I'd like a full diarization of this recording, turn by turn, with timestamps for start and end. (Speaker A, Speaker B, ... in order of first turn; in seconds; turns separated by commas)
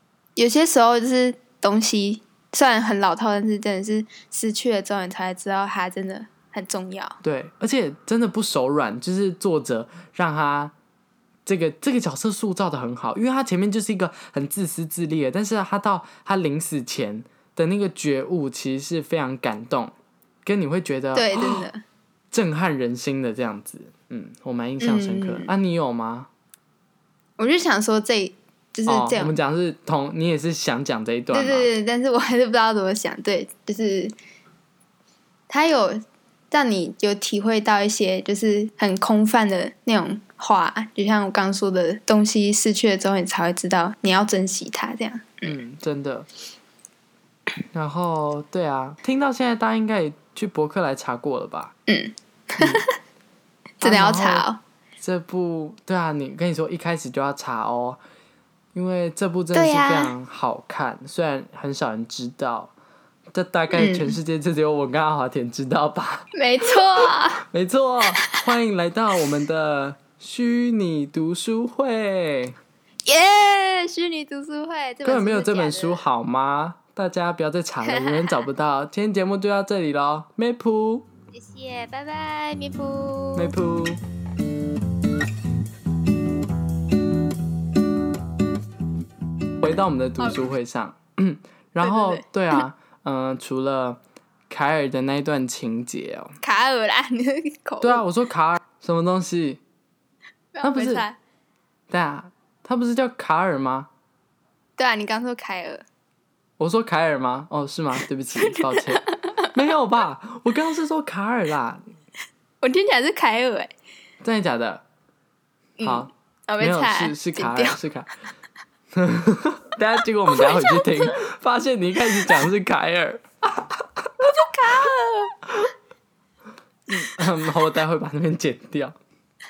Speaker A: 0.3-7.2, Speaker B: 7.2-10.7, Speaker B: 11.4-19.9, Speaker B: 20.4-21.7, Speaker A: 21.1-21.8, Speaker B: 22.3-26.3, Speaker A: 24.8-25.5, Speaker A: 27.4-29.3, Speaker B: 28.9-31.7, Speaker A: 31.3-34.1, Speaker A: 35.5-36.0, Speaker A: 36.5-45.5, Speaker B: 45.4-46.3, Speaker B: 47.7-51.7, Speaker A: 51.9-52.9, Speaker B: 52.6-52.8, Speaker A: 53.8-54.6, Speaker B: 53.8-54.5, Speaker B: 55.0-58.0, Speaker B: 58.8-62.7, Speaker A: 59.5-60.1, Speaker B: 63.3-66.3, Speaker A: 63.7-64.1, Speaker A: 66.3-67.4, Speaker B: 67.0-72.6, Speaker A: 73.0-76.0, Speaker B: 75.0-81.0, Speaker A: 77.8-78.4, Speaker A: 81.3-83.5, Speaker B: 83.3-84.0, Speaker B: 89.6-96.3, Speaker A: 91.8-92.2, Speaker A: 96.4-98.0, Speaker B: 97.8-99.6, Speaker A: 100.5-101.2, Speaker B: 100.6-101.0, Speaker B: 101.9-103.9, Speaker A: 104.8-105.8, Speaker B: 106.6-111.8, Speaker A: 108.3-109.5, Speaker A: 112.6-113.7, Speaker B: 114.2-114.8, Speaker A: 115.8-117.8, Speaker B: 115.8-118.1, Speaker B: 119.0-124.1, Speaker A: 120.3-121.1, Speaker A: 124.2-125.3, Speaker B: 126.9-128.9